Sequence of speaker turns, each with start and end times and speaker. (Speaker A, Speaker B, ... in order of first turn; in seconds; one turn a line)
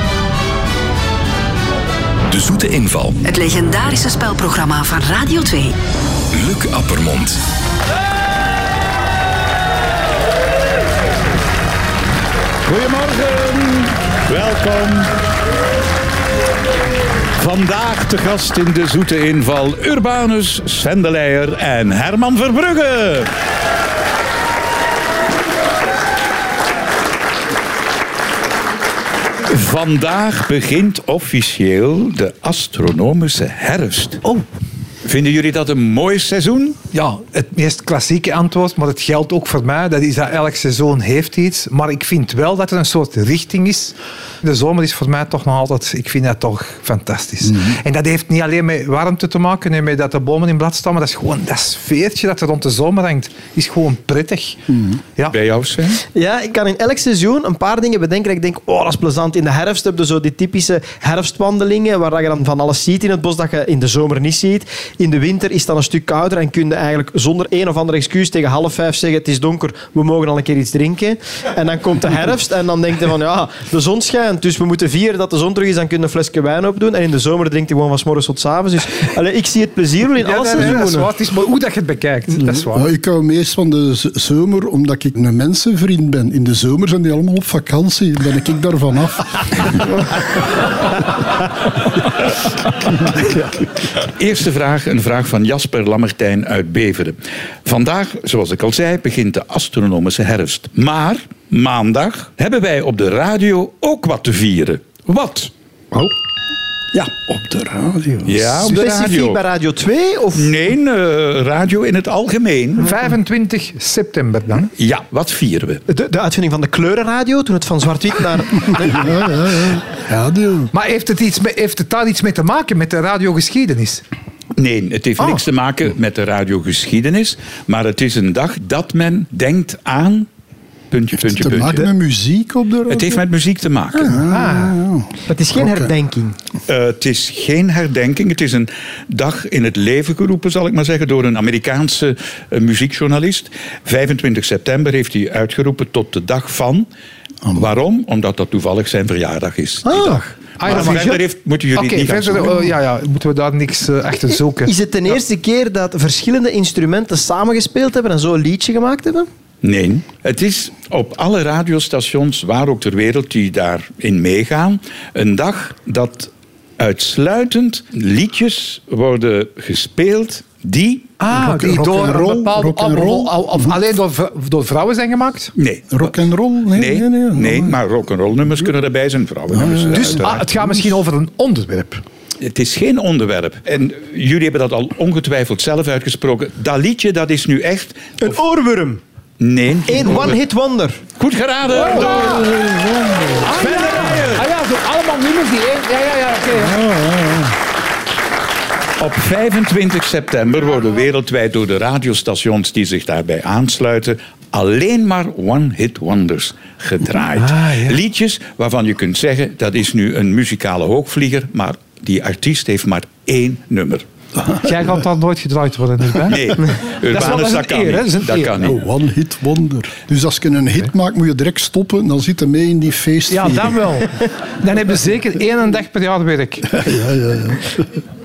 Speaker A: 2.3-3.2
Speaker B: 3.2-5.8
Speaker A: 6.3-7.4
Speaker C: 12.6-15.1
Speaker C: 17.4-23.3
Speaker C: 29.4-34.2
Speaker C: 35.0-36.8
Speaker D: 36.9-54.7
Speaker C: 55.3-56.0
Speaker E: 56.1-81.1
Speaker D: 80.2-82.9
Speaker F: 82.4-89.5
Speaker C: 94.0-105.5
Speaker F: 106.9-108.5
Speaker C: 108.2-109.4
Speaker E: 108.6-110.5
Speaker C: 110.3-112.9
Speaker D: 112.8-114.7
Speaker C: 114.8-115.8
Speaker E: 115.9-119.2
Speaker F: 118.9-120.7
Speaker D: 120.7-124.0
Speaker C: 124.5-130.3
Speaker C: 130.9-131.9
Speaker F: 131.2-133.2
Speaker C: 132.9-134.2
Speaker F: 134.0-135.9
Speaker D: 134.3-134.8
Speaker E: 135.3-136.3
Speaker C: 136.7-146.9
Speaker C: 147.5-152.6
Speaker E: 149.9-150.2
Speaker D: 150.6-151.2
Speaker D: 151.7-154.7
Speaker E: 154.6-159.3
Speaker C: 159.6-171.1
Speaker D: 171.2-175.5
Speaker F: 171.3-173.8
Speaker C: 175.6-176.1
Speaker F: 175.9-177.8
Speaker C: 176.7-180.4
Speaker F: 179.5-180.9
Speaker D: 179.9-182.0
Speaker C: 182.4-188.2
Speaker E: 188.2-189.0
Speaker C: 189.4-190.4
Speaker E: 189.9-191.0
Speaker C: 191.2-192.6
Speaker D: 191.7-192.4
Speaker F: 192.1-193.4
Speaker C: 193.4-194.4
Speaker D: 193.4-196.8
Speaker F: 196.6-197.6
Speaker C: 199.0-214.0
Speaker D: 207.4-208.0
Speaker D: 214.6-218.6
Speaker C: 216.2-218.8
Speaker F: 218.6-223.8
Speaker D: 223.3-226.8
Speaker F: 226.7-228.0